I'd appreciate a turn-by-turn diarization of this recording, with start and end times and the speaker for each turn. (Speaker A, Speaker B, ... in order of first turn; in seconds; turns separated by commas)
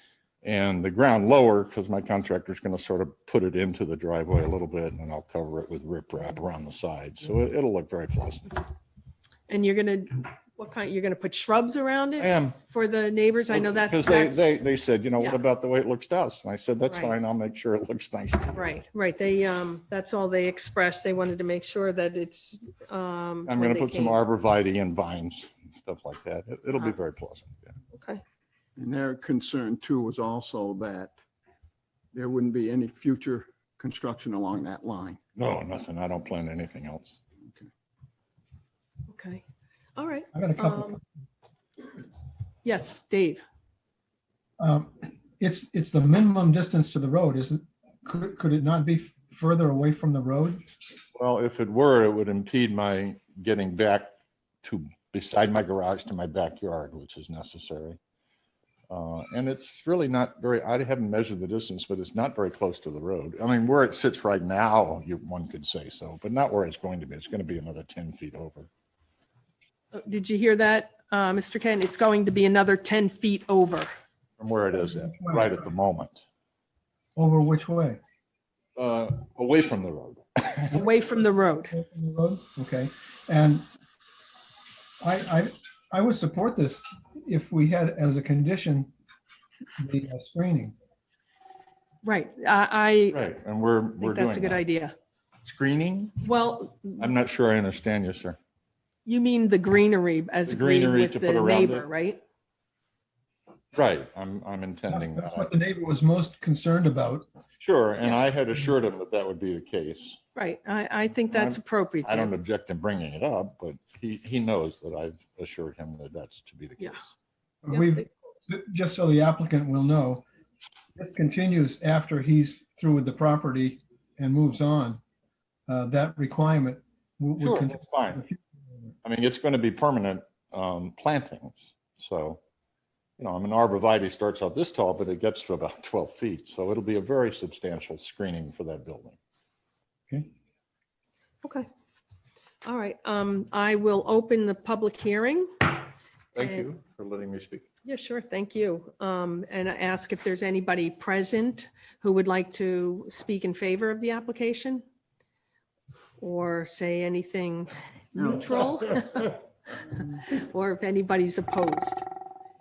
Speaker A: 0.4-8.6, Speaker B: 9.5-14.6, Speaker A: 12.2-12.6, Speaker A: 13.5-18.7, Speaker B: 16.9-17.2, Speaker B: 18.5-24.2, Speaker A: 23.5-27.7, Speaker B: 27.9-28.2, Speaker C: 28.8-31.2, Speaker C: 32.1-35.2, Speaker A: 35.4-37.2, Speaker B: 39.1-39.4, Speaker B: 40.0-41.0, Speaker D: 40.3-41.0, Speaker B: 42.6-43.4, Speaker D: 44.6-50.6, Speaker A: 51.1-54.1, Speaker A: 54.6-58.0, Speaker A: 58.9-68.7, Speaker B: 69.9-73.9, Speaker A: 74.4-76.2, Speaker D: 74.7-75.6, Speaker D: 77.2-78.0, Speaker A: 78.8-80.7, Speaker B: 80.7-81.7, Speaker D: 80.7-81.1, Speaker D: 81.7-83.7, Speaker D: 85.0-88.9, Speaker D: 89.8-90.8, Speaker B: 92.0-93.2, Speaker A: 93.1-94.6, Speaker B: 94.0-94.9, Speaker A: 95.5-96.2, Speaker B: 96.2-97.1, Speaker A: 97.0-98.4, Speaker B: 99.1-102.2, Speaker A: 100.5-101.9, Speaker A: 103.7-105.5, Speaker D: 104.9-107.3, Speaker A: 107.6-110.2, Speaker B: 108.0-108.3, Speaker B: 110.4-112.3, Speaker A: 111.3-117.1, Speaker D: 117.6-120.2, Speaker B: 117.7-118.1, Speaker D: 121.0-125.0, Speaker D: 125.7-128.9, Speaker A: 127.4-128.2, Speaker A: 129.0-132.4, Speaker A: 133.2-139.2, Speaker B: 142.6-145.8, Speaker A: 146.3-147.7, Speaker B: 146.4-146.7, Speaker B: 147.8-154.8, Speaker B: 156.2-162.0, Speaker C: 158.2-158.7